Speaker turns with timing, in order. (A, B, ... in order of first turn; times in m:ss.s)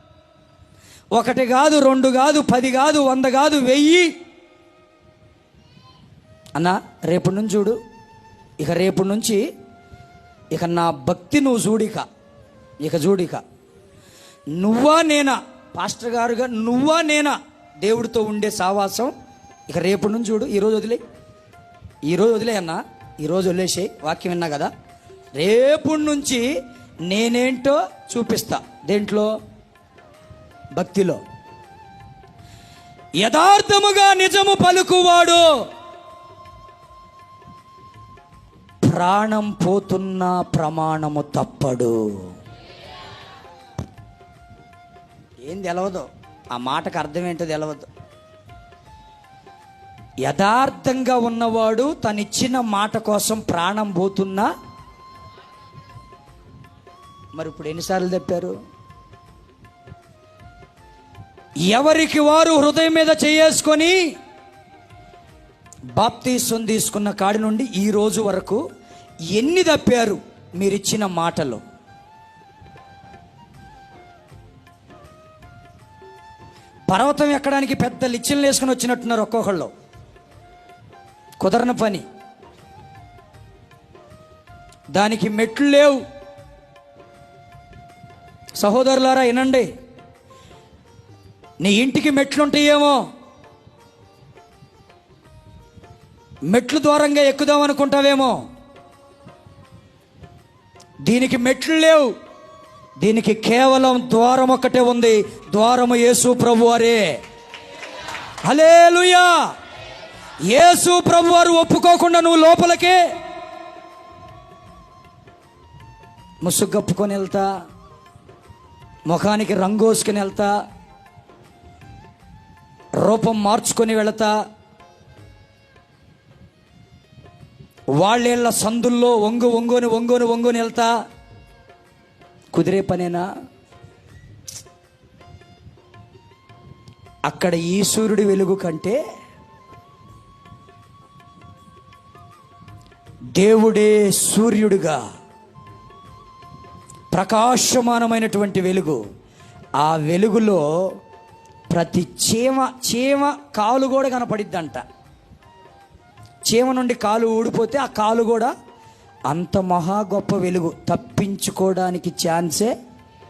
0:01.2-0:04.1 A
0:06.6-0:07.8 A
0:08.6-0:09.4 A
0:10.5-0:12.1 A
0:12.8-0:13.4 A
0:14.6-0:19.1 A
0:19.7-0:21.0 A
0:22.0-0:24.7 A
0:25.4-0:26.5 A
0:27.1-0:29.3 A
0:30.8-0:31.2 A
0:33.2-0:35.5 A
0:38.8-0:42.3 A
0:45.4-0:47.9 A
0:50.2-0:54.5 A
0:57.3-0:58.6 A
1:01.7-1:04.0 A
1:05.9-1:08.6 A
1:09.3-1:11.6 A
1:16.9-1:19.7 A
1:21.4-1:22.0 A
1:24.9-1:26.0 A
1:28.6-1:29.7 A
1:31.6-1:33.0 A
1:36.5-1:38.4 A
1:41.0-1:42.1 A
1:43.0-1:47.2 A
1:48.4-1:49.4 A
1:50.5-1:53.0 A
1:56.4-1:57.5 A
1:59.1-2:00.6 A
2:03.0-2:04.4 A
2:08.0-2:10.9 A
2:12.5-2:13.3 A
2:17.2-2:19.0 A
2:23.3-2:25.0 A
2:27.1-2:29.0 A
2:29.8-2:31.0 A
2:31.7-2:34.8 A
2:36.5-2:38.5 A
2:39.3-2:42.8 A